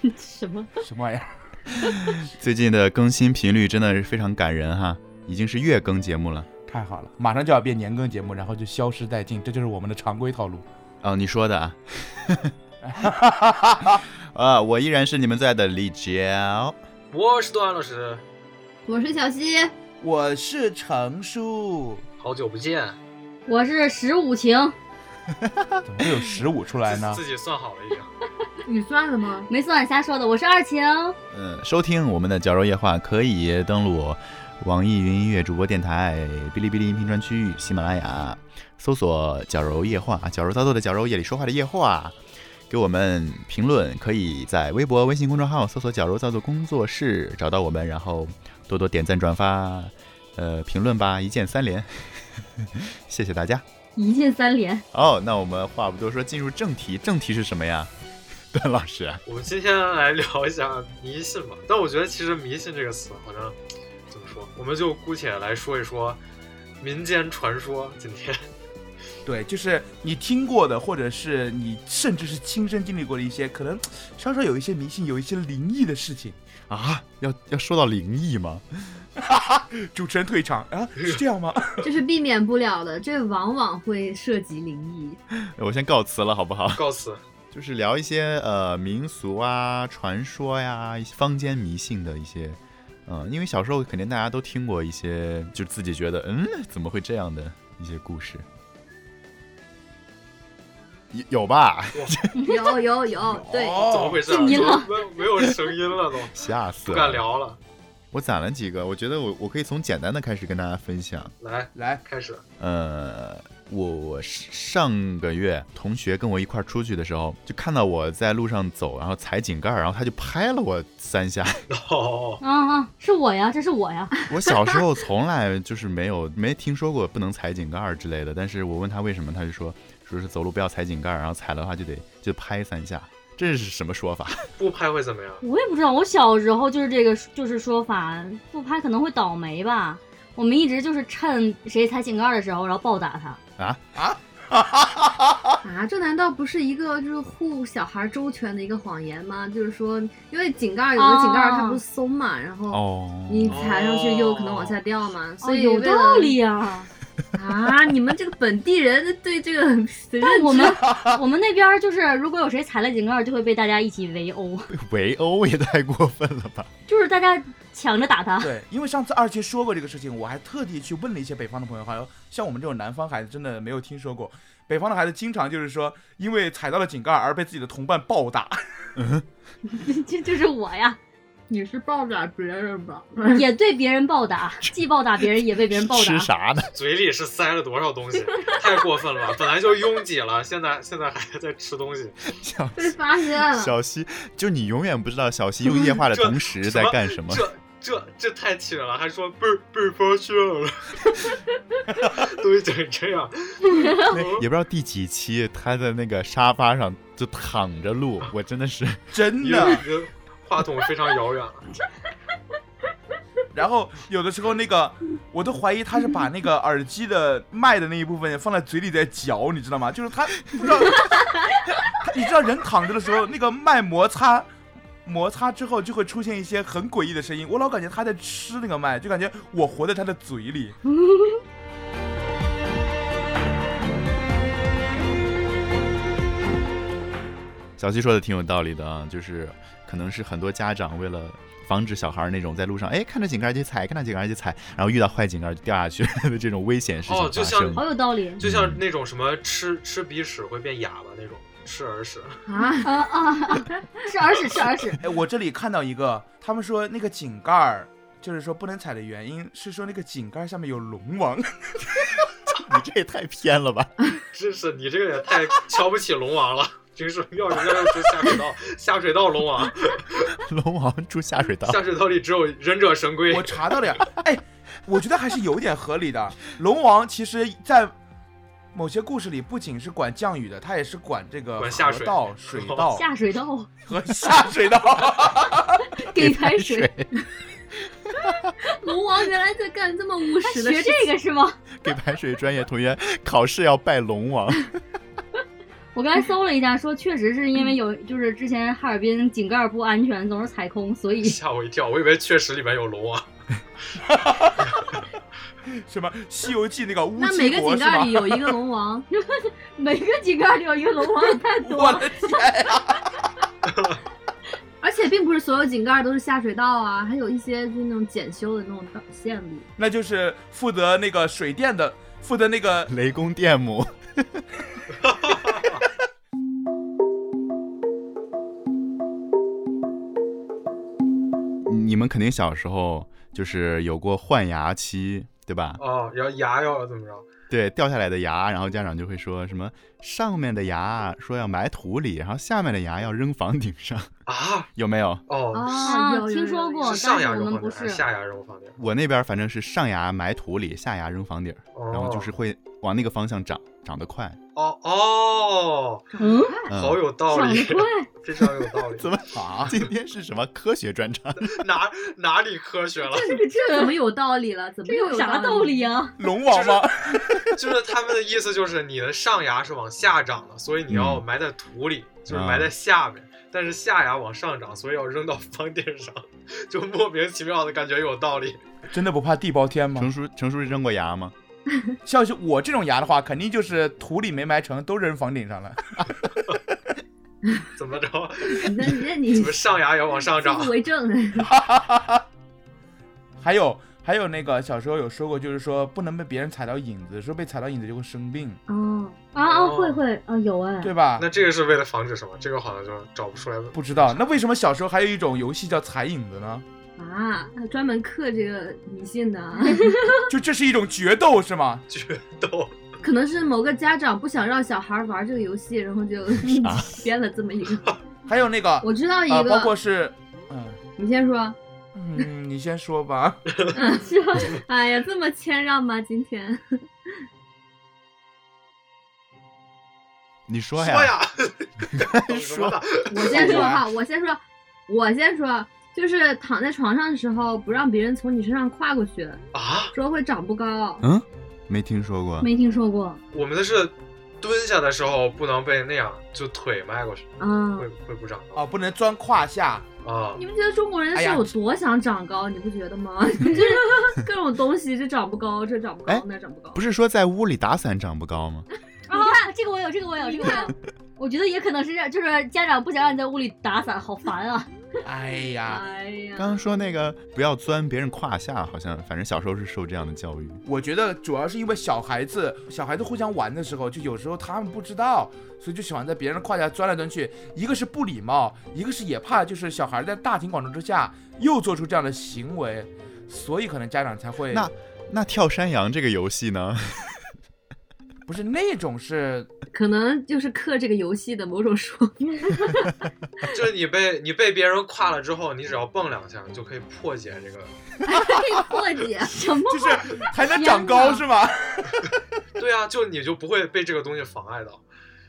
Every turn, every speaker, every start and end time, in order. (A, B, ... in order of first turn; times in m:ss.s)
0:00.2-0:00.7 A
0:00.8-0:01.3 B
0:02.2-0:06.5 C
0:06.6-0:10.6 B
0:11.0-0:12.5 C
0:12.8-0:14.0 B
0:14.3-0:16.8 C
0:17.1-0:18.2 D
0:18.8-0:19.7 A
0:20.0-0:22.0 B
0:22.2-0:23.0 D
0:23.5-0:24.7 E
0:25.4-0:25.8 C
0:25.8-0:27.2 B
0:26.8-0:28.1 D
0:28.6-0:29.5 A
0:29.5-0:31.2 E
0:31.3-0:42.2 C
0:42.7-0:53.6 C
0:54.0-0:54.8 E
0:54.9-0:57.9 C
0:58.5-0:59.2 C
0:59.2-1:03.6 D
1:04.1-1:06.2 D
1:06.8-1:08.4 D
1:09.2-1:16.4 B
1:16.7-1:19.0 C
1:19.2-1:21.9 B
1:21.8-1:25.2 A
1:25.5-1:26.8 C
1:26.7-1:27.2 D
1:27.5-1:38.4 C
1:41.1-1:42.3 C
1:42.4-1:42.7 E
1:42.4-1:43.9 A
1:43.1-1:44.2 B
1:43.8-1:47.6 D
1:44.3-1:44.9 E
1:46.3-1:47.2 C
1:48.1-1:51.3 C
1:51.4-1:52.4 D
1:51.7-1:52.0 B
1:52.6-2:01.6 C
2:01.7-2:02.4 D
2:02.4-2:04.2 E
2:04.3-2:14.5 C
2:14.6-2:15.4 D
2:15.4-2:23.4 E
2:24.0-2:25.6 B
2:25.6-2:36.4 A
2:31.0-2:31.8 E
2:32.7-2:33.6 C
2:33.4-2:34.8 D
2:35.4-2:36.9 E
2:37.3-2:40.8 A
2:40.2-2:44.7 E
2:40.8-2:41.2 B
2:44.7-2:46.7 C
2:46.9-2:48.5 E
2:48.4-2:58.6 B
2:59.0-2:59.2 C
2:59.7-3:01.0 E
3:01.5-3:03.4 A
3:03.3-3:06.3 E
3:05.7-3:06.7 C
3:06.7-3:12.2 D
3:08.3-3:08.5 A
3:12.3-3:17.5 C
3:12.8-3:13.7 A
3:16.1-3:21.4 D
3:21.9-3:22.2 B
3:22.0-3:24.4 D
3:24.1-3:29.2 C
3:29.1-3:29.8 B
3:29.4-3:31.7 D
3:33.5-3:44.5 B
3:45.0-3:50.8 B
3:51.0-3:51.4 E
3:57.8-4:07.8 C
4:07.1-4:07.8 D
4:07.7-4:08.4 E
4:08.4-4:12.4 D
4:08.4-4:08.8 C
4:12.4-4:12.9 A
4:12.6-4:15.0 E
4:15.0-4:22.0 B
4:22.5-4:23.9 C
4:24.3-4:30.3 D
4:30.3-4:31.8 C
4:31.6-4:33.9 D
4:33.3-4:37.9 B
4:38.7-4:43.1 B
4:41.6-4:42.9 D
4:42.9-4:43.7 E
4:43.9-4:46.0 B
4:46.0-4:46.9 E
4:46.1-4:47.1 C
4:48.6-4:51.1 A
4:50.4-4:51.6 E
4:51.8-4:54.7 C
4:55.9-5:01.4 E
5:01.2-5:03.2 D
5:03.9-5:04.8 B
5:05.7-5:08.6 B
5:07.2-5:09.0 A
5:09.1-5:12.1 E
5:11.6-5:13.1 B
5:13.7-5:14.0 D
5:14.8-5:19.7 A
5:19.8-5:22.9 B
5:22.9-5:24.4 C
5:25.0-5:25.8 D
5:31.6-5:35.8 C
5:35.8-5:37.2 D
5:37.5-5:44.1 C
5:44.3-5:44.7 D
5:44.8-5:45.2 C
5:45.3-5:45.9 D
5:45.5-5:47.0 A
5:45.8-5:48.0 E
5:46.8-5:48.8 D
5:48.8-5:54.4 C
5:51.7-5:52.3 D
5:54.5-5:56.1 D
5:56.1-5:56.8 A
5:56.2-5:56.6 E
5:56.7-5:57.0 C
5:56.7-5:59.1 D
5:57.3-5:58.1 E
5:59.0-6:01.6 C
5:59.3-5:59.8 B
6:01.4-6:03.4 D
6:03.1-6:04.0 E
6:03.2-6:05.9 A
6:04.8-6:06.2 E
6:06.2-6:07.5 B
6:06.5-6:06.9 D
6:07.5-6:18.6 D
6:10.9-6:11.2 C
6:12.3-6:12.7 C
6:18.9-6:20.1 B
6:20.0-6:21.3 C
6:22.0-6:26.4 B
6:27.7-6:30.8 D
6:28.5-6:29.7 A
6:30.3-6:31.5 A
6:31.4-6:32.2 B
6:33.4-6:38.6 B
6:38.7-6:40.9 E
6:38.7-6:39.2 A
6:39.4-6:40.0 D
6:40.8-6:41.2 B
6:41.2-6:44.3 D
6:43.7-6:46.6 B
6:47.0-6:50.2 A
6:49.8-6:50.2 E
6:50.3-6:51.8 B
6:51.9-6:52.8 D
6:53.0-6:57.9 A
6:56.4-6:56.9 C
6:58.3-7:00.8 B
6:58.8-6:59.7 A
7:01.0-7:01.6 A
7:01.9-7:03.6 B
7:03.5-7:03.7 D
7:03.7-7:06.8 A
7:03.9-7:04.6 E
7:10.5-7:11.2 C
7:10.8-7:13.5 D
7:11.9-7:12.8 C
7:13.1-7:19.4 A
7:13.2-7:13.9 B
7:19.5-7:19.9 D
7:19.9-7:21.0 A
7:21.0-7:22.5 C
7:22.4-7:23.2 E
7:23.3-7:28.6 D
7:27.4-7:27.9 A
7:28.5-7:29.9 B
7:30.0-7:30.4 D
7:30.3-7:36.8 A
7:31.1-7:31.5 B
7:33.4-7:34.0 E
7:36.1-7:38.6 C
7:39.1-7:44.7 E
7:39.1-7:39.5 A
7:40.2-7:40.7 A
7:45.0-7:45.8 B
7:45.7-7:46.5 E
7:46.4-7:50.6 C
7:50.6-8:04.7 B
8:04.5-8:07.3 C
8:08.3-8:09.5 B
8:09.7-8:12.9 A
8:13.5-8:17.7 D
8:18.0-8:19.5 A
8:19.2-8:21.2 E
8:19.7-8:22.1 B
8:22.6-8:24.8 D